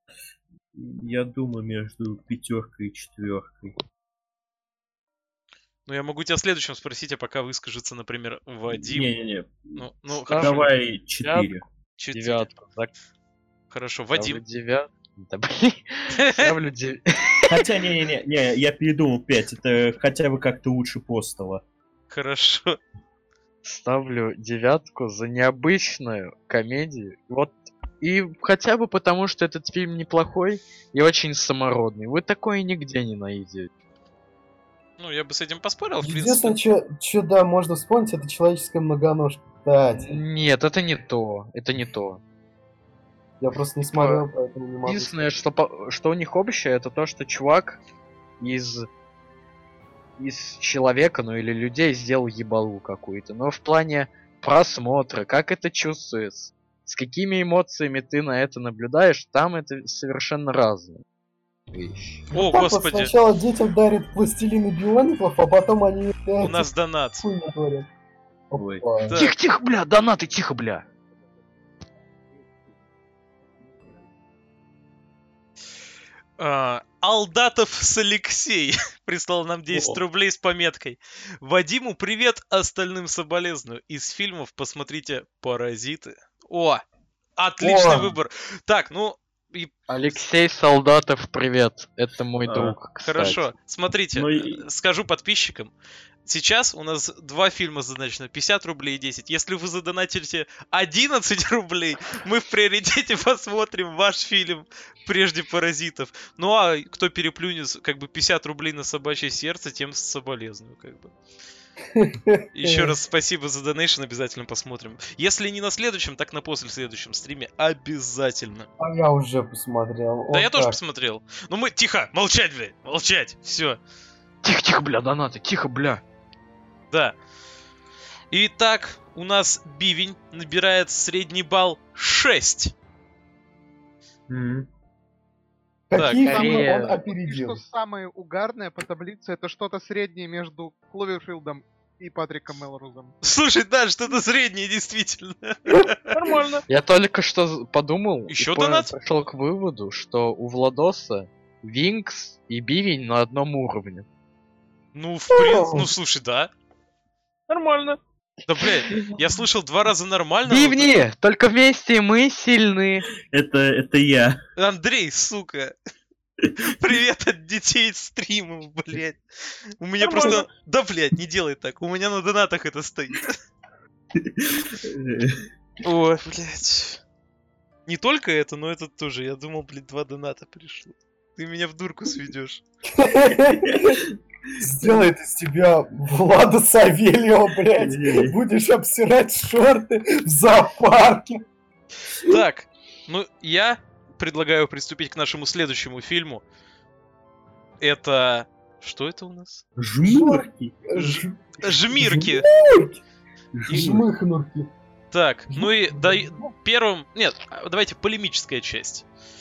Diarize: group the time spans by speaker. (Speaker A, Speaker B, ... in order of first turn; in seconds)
Speaker A: 0.7-3.8, 8.7-9.8, 10.3-11.6, 17.5-21.6, 68.5-68.8, 79.7-80.0, 92.4-92.8, 94.1-94.6, 134.3-134.7, 163.2-164.4, 174.2-175.4, 187.8-188.4, 199.8-200.8, 203.5-204.1
Speaker B: 5.8-9.1, 9.8-10.7, 12.0-12.5, 13.7-14.4, 16.2-16.5, 22.1-22.8, 35.0-36.6, 62.3-63.1, 66.4-67.2, 69.0-69.3, 76.4-86.8, 87.4-89.7, 93.0-95.7, 96.2-111.1, 112.5-118.7, 120.3-123.8, 126.9-127.2, 128.3-132.7, 135.9-136.2, 143.2-146.1, 148.3-148.9, 154.9-156.5, 157.6-157.9, 158.4-160.9, 164.6-165.7, 166.6-169.2, 169.8-173.4, 175.8-177.0, 177.9-182.6, 192.2-196.4, 197.8-199.6, 200.9-202.4, 205.1-209.1
Speaker C: 10.1-10.6, 11.2-11.6, 12.1-12.9, 14.1-17.6, 23.6-33.7, 40.0-42.2, 43.8-44.2, 44.9-47.8, 48.4-48.9, 50.2-61.0, 61.7-62.2, 69.1-70.8, 89.9-93.5, 124.4-126.0, 136.2-137.0, 146.3-154.1, 160.4-163.1
Speaker D: 36.0-40.2, 43.4-45.2, 62.3-66.7, 67.2-67.9, 68.5-69.2, 87.6-88.1, 111.9-112.9, 118.8-120.8, 135.9-137.6, 155.3-155.9, 170.2-170.4, 182.8-184.0, 184.6-191.4, 200.0-203.0, 203.7-204.7, 205.5-206.3
Speaker E: 136.2-143.1